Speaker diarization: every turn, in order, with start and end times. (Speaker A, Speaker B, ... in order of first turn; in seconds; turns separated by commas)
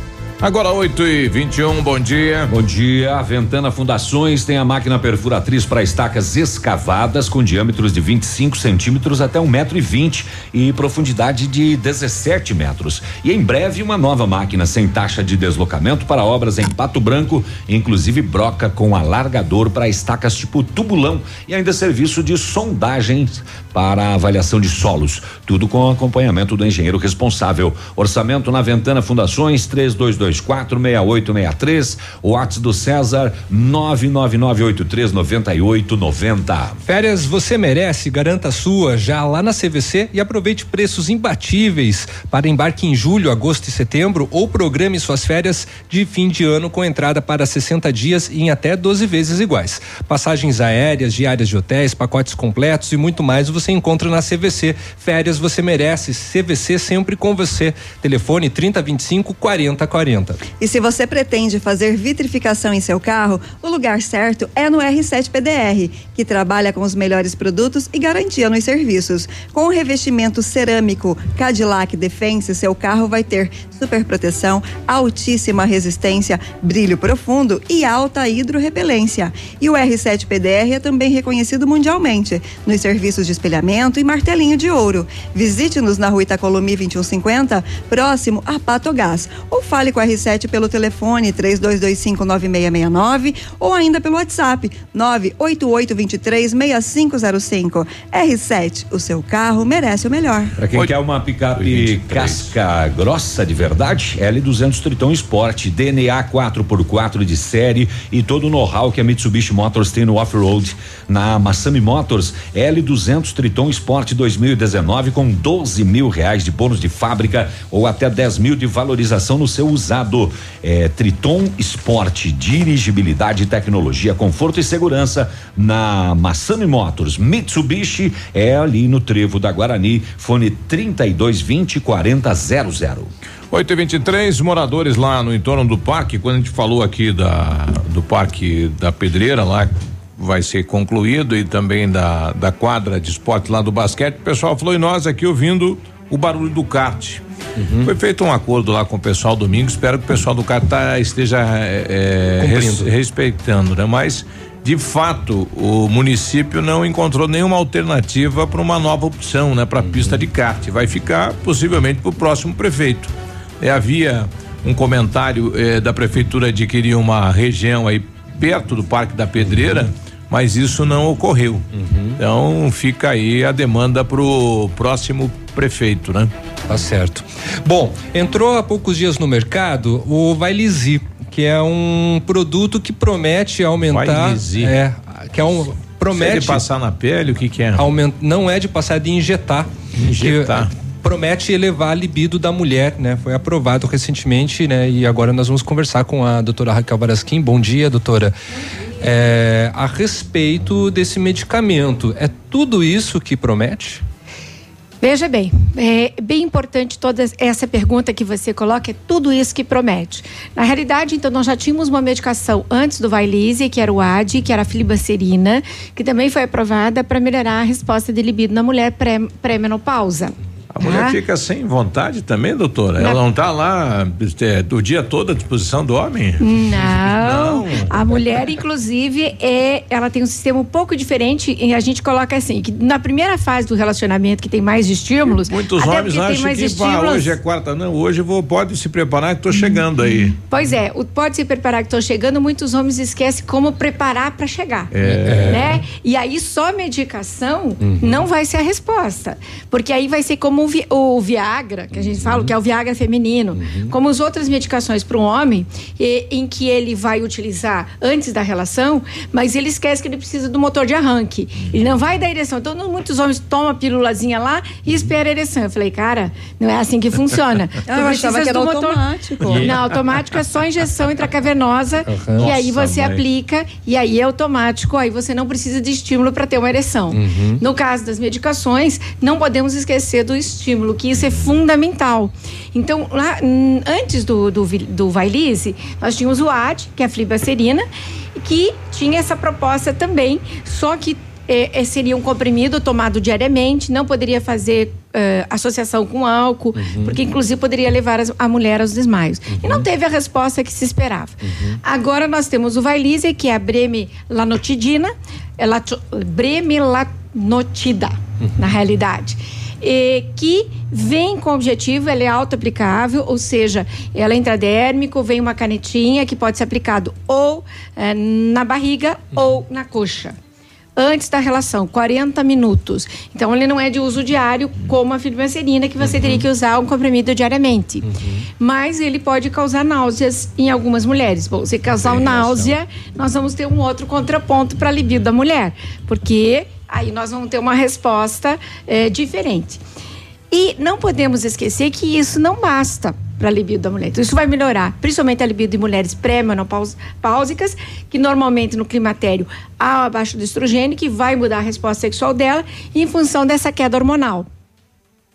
Speaker A: 0.4-2.5, Speaker B: 2.5-36.8, Speaker C: 36.9-60.4, Speaker D: 60.6-100.5, Speaker B: 100.6-133.1, Speaker A: 101.5-102.5, Speaker A: 133.5-147.2, Speaker C: 147.6-147.9, Speaker A: 147.8-171.7, Speaker C: 152.4-152.9, Speaker C: 159.9-160.2, Speaker C: 169.5-169.8, Speaker C: 171.8-172.2, Speaker A: 172.2-176.3, Speaker C: 176.7-186.6, Speaker A: 183.9-184.8, Speaker A: 186.1-187.9, Speaker C: 187.8-198.3, Speaker A: 190.0-190.7, Speaker C: 199.0-204.0, Speaker E: 205.0-221.2, Speaker A: 220.7-227.9, Speaker E: 226.4-237.3, Speaker A: 235.5-240.4, Speaker E: 240.4-244.9, Speaker A: 244.9-245.7, Speaker C: 245.1-245.7, Speaker E: 245.5-269.0, Speaker C: 247.8-248.2, Speaker C: 251.9-252.5, Speaker C: 253.6-253.9, Speaker D: 267.9-269.8, Speaker C: 269.5-269.9, Speaker E: 269.6-320.4, Speaker C: 272.1-272.5, Speaker A: 272.4-273.2, Speaker C: 277.1-277.6, Speaker C: 296.8-297.2, Speaker C: 299.5-299.9, Speaker C: 301.4-301.8, Speaker E: 321.0-328.1, Speaker C: 326.1-326.4, Speaker C: 328.0-328.5, Speaker E: 328.6-339.8, Speaker A: 331.9-332.8, Speaker E: 340.5-354.5